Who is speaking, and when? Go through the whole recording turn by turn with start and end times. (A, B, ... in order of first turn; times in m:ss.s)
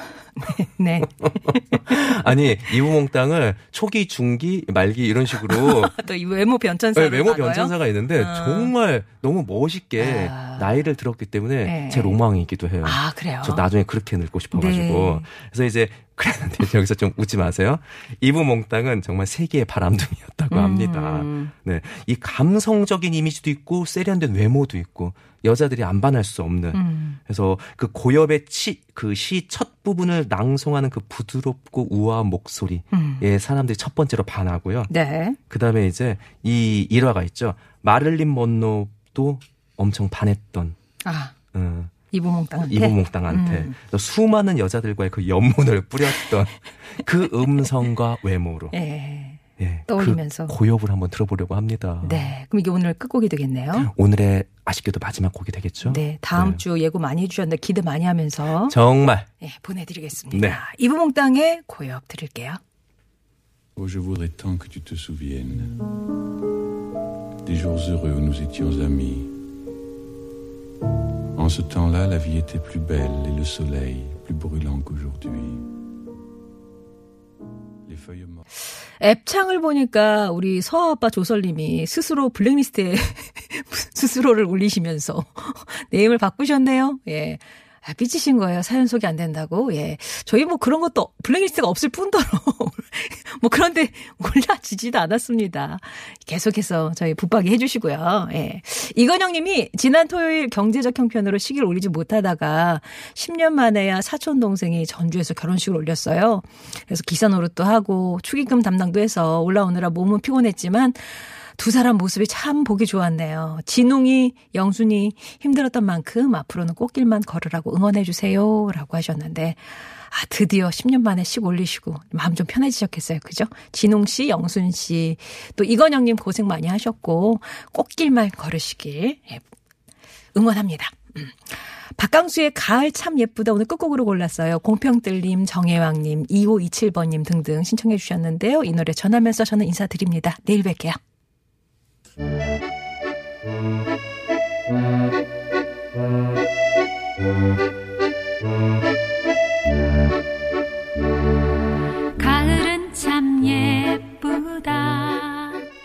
0:00.4-0:02.0 A
0:01.0-0:06.0 B
0:05.5-0:08.7 A
0:06.9-0:34.9 B
0:10.0-0:10.7 A
0:11.6-0:12.2 A
0:12.8-0:13.6 A
0:14.5-0:15.3 A
0:20.5-0:21.5 A
0:26.7-0:27.2 A
0:32.9-0:33.2 A
0:34.9-0:35.4 A
0:35.5-0:40.8 B
0:41.0-0:41.3 A
0:41.5-0:41.9 B
0:42.1-0:43.7 A
0:42.6-0:48.7 B
0:48.7-0:50.5 A
0:49.6-0:52.3 B
0:52.0-0:53.9 A
0:53.7-0:56.6 B
0:55.8-0:58.8 A
0:58.7-0:59.3 B
0:59.4-1:02.6 A
1:00.3-1:00.6 B
1:03.8-1:05.8 C
1:07.4-1:09.3 C
1:11.3-1:15.7 C
1:17.8-1:18.4 C
1:19.0-2:09.4 A
2:10.3-2:21.0 A
2:32.2-2:35.6 A